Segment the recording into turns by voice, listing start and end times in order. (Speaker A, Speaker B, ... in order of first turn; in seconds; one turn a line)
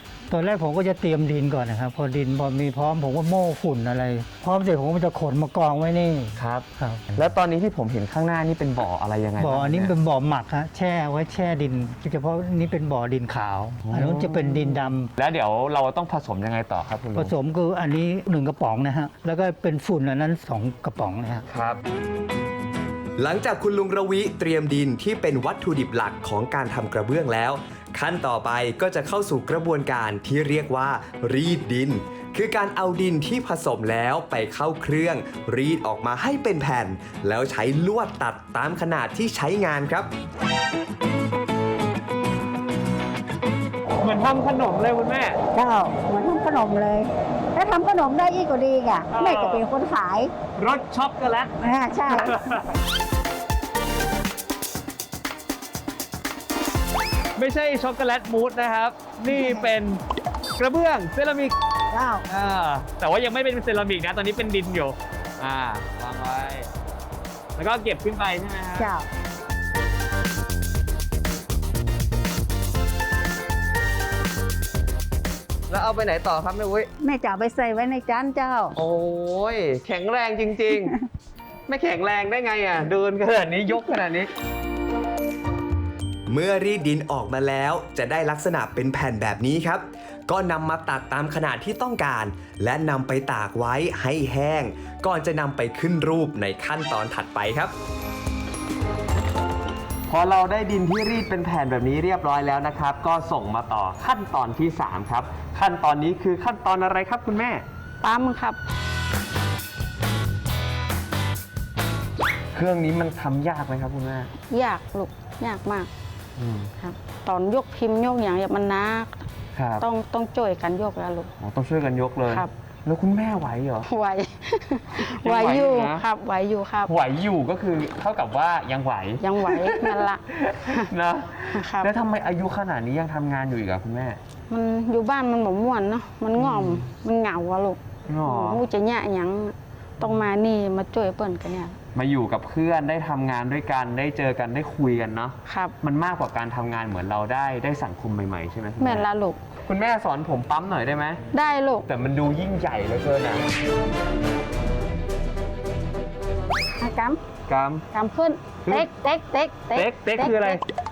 Speaker A: 0.3-7.1
Speaker B: 6.4-9.9
Speaker A: 9.4-15.1
Speaker B: 13.8-17.3
Speaker A: 17.1-21.4
Speaker B: 21.5-21.8
Speaker C: 23.2-40.1
Speaker B: 44.0-45.4
Speaker D: 45.5-50.3
Speaker B: 49.1-49.6
Speaker B: 50.6-51.5
Speaker D: 51.6-52.5
Speaker B: 52.1-52.6
Speaker B: 57.4-60.0
Speaker D: 59.2-59.7
Speaker B: 60.6-61.5
Speaker D: 61.9-62.2
Speaker B: 62.3-66.7
Speaker B: 67.6-68.9
Speaker D: 68.8-69.0
Speaker B: 75.7-76.9
Speaker D: 77.0-78.8
Speaker B: 78.7-80.9
Speaker B: 81.7-84.3
Speaker C: 86.3-97.7
Speaker B: 100.1-107.6
Speaker E: 108.0-108.6
Speaker B: 112.5-114.3
Speaker E: 114.5-115.9
Speaker B: 116.4-116.7
Speaker E: 116.8-119.3
Speaker B: 119.5-119.8
Speaker E: 119.8-121.3
Speaker B: 121.4-123.8
Speaker E: 123.9-126.9
Speaker B: 125.2-126.0
Speaker B: 126.8-134.2
Speaker E: 129.2-130.9
Speaker E: 131.6-131.9
Speaker E: 134.5-141.8
Speaker B: 136.3-136.9
Speaker B: 138.1-138.6
Speaker B: 141.9-149.1
Speaker E: 145.5-145.7
Speaker E: 148.8-149.4
Speaker B: 149.7-151.2
Speaker E: 151.3-151.8
Speaker B: 151.9-153.4
Speaker E: 156.8-157.2
Speaker B: 157.5-157.8
Speaker E: 157.9-160.6
Speaker B: 159.7-160.6